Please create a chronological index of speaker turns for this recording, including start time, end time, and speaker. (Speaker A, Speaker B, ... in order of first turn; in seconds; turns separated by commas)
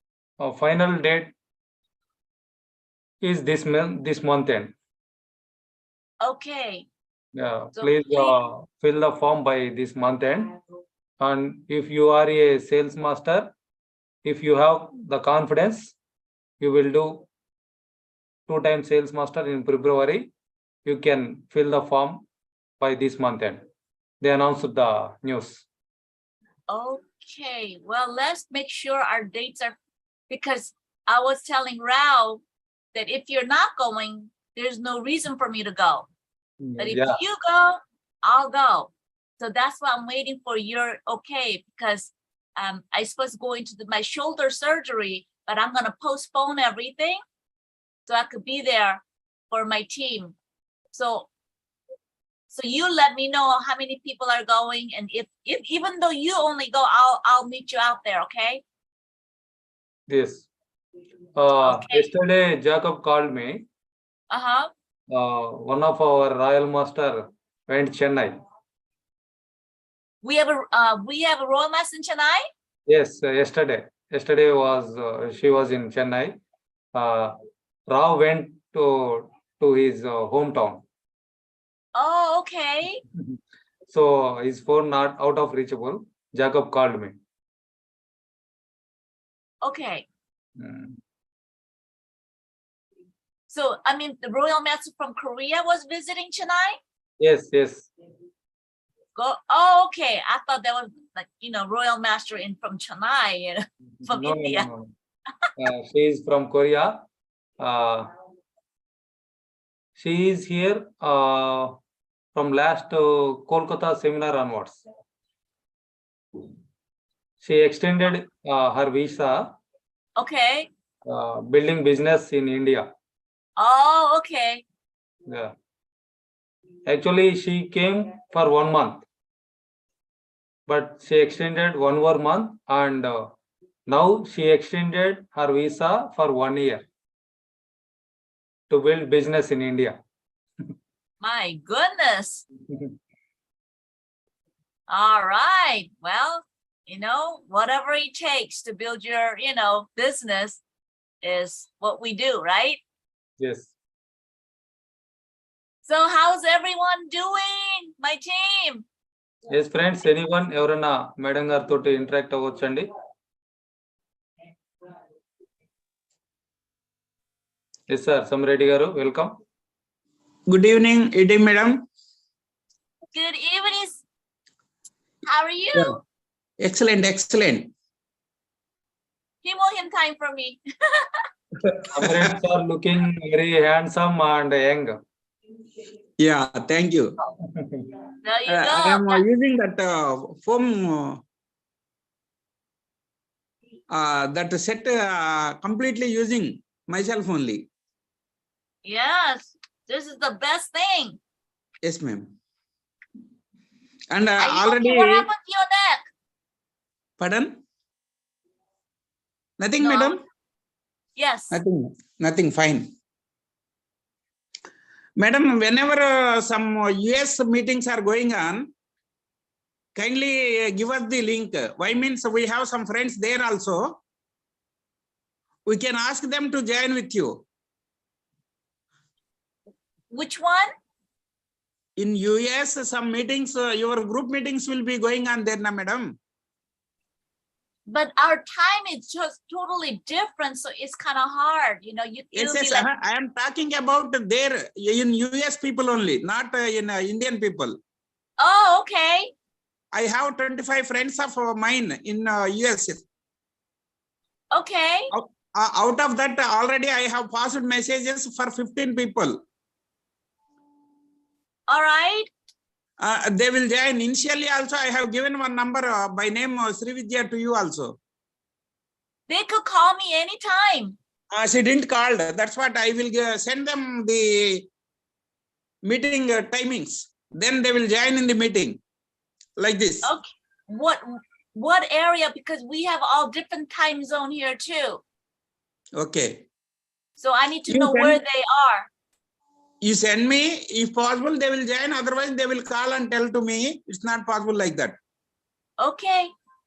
Speaker A: 0.4-1.3, Speaker A: 3.2-4.7, Speaker B: 6.2-6.9, Speaker A: 7.4-10.5, Speaker B: 7.8-8.4, Speaker A: 11.2-13.5, Speaker A: 14.2-15.9, Speaker A: 16.6-17.3, Speaker A: 18.5-20.3, Speaker A: 20.9-22.2, Speaker A: 22.8-23.6, Speaker A: 24.2-25.6, Speaker B: 26.7-29.8, Speaker B: 30.3-32.4, Speaker B: 32.9-36.1, Speaker A: 36.6-37.2, Speaker B: 36.8-47.2, Speaker B: 48.1-50.3, Speaker B: 50.9-51.3, Speaker B: 52.5-58.6, Speaker A: 60.1-60.5, Speaker A: 61.4-63.6, Speaker B: 61.6-62.1, Speaker B: 64.3-64.7, Speaker A: 65.1-68.3, Speaker B: 70.2-72.5, Speaker A: 72.9-76.3, Speaker A: 76.9-77.4, Speaker A: 77.9-80.8, Speaker B: 81.9-83.0, Speaker A: 83.9-87.2, Speaker B: 89.6-90.0, Speaker A: 90.6-91.0, Speaker B: 93.5-96.8, Speaker A: 97.2-97.9, Speaker B: 99.1-104.7, Speaker A: 104.0-104.9, Speaker A: 105.6-106.9, Speaker A: 107.6-108.1, Speaker A: 110.0-111.8, Speaker A: 112.3-114.8, Speaker A: 117.4-119.5, Speaker B: 120.2-120.7, Speaker A: 121.0-122.8, Speaker B: 123.6-124.6, Speaker A: 125.3-125.5, Speaker A: 126.8-129.0, Speaker A: 130.7-133.3, Speaker A: 133.9-136.8, Speaker A: 138.7-139.9, Speaker B: 141.2-142.4, Speaker B: 144.9-150.6, Speaker B: 151.2-152.8, Speaker A: 153.4-153.7, Speaker B: 155.8-158.8, Speaker A: 159.5-162.9, Speaker A: 167.9-169.3, Speaker C: 170.5-171.7, Speaker B: 173.1-174.0, Speaker B: 175.2-176.0, Speaker C: 176.6-177.7, Speaker B: 179.4-181.3, Speaker A: 181.9-185.0, Speaker C: 182.0-182.3, Speaker C: 186.2-187.1, Speaker A: 187.4-187.9, Speaker B: 188.2-189.2, Speaker C: 188.5-191.2, Speaker C: 193.9-197.6, Speaker B: 198.8-201.2, Speaker C: 201.8-202.3, Speaker C: 204.1-205.3, Speaker B: 204.4-206.1, Speaker C: 207.2-207.5, Speaker C: 209.6-210.2, Speaker B: 209.8-210.2, Speaker B: 211.2-211.5, Speaker C: 211.5-212.8, Speaker C: 215.2-218.7, Speaker C: 219.9-223.9, Speaker C: 225.7-227.3, Speaker B: 230.1-230.7, Speaker C: 232.0-236.1, Speaker B: 237.9-242.8, Speaker C: 242.3-247.7, Speaker B: 248.4-249.3, Speaker C: 249.9-253.0, Speaker B: 254.5-255.1, Speaker C: 255.1-259.4, Speaker B: 261.7-262.3, Speaker C: 263.0-267.9, Speaker B: 269.3-270.9, Speaker C: 271.3-274.6, Speaker C: 275.9-278.8, Speaker C: 279.6-280.1, Speaker B: 280.0-285.0, Speaker C: 286.0-286.3, Speaker B: 287.2-288.9, Speaker C: 287.7-288.2, Speaker C: 289.8-294.9, Speaker B: 295.8-296.3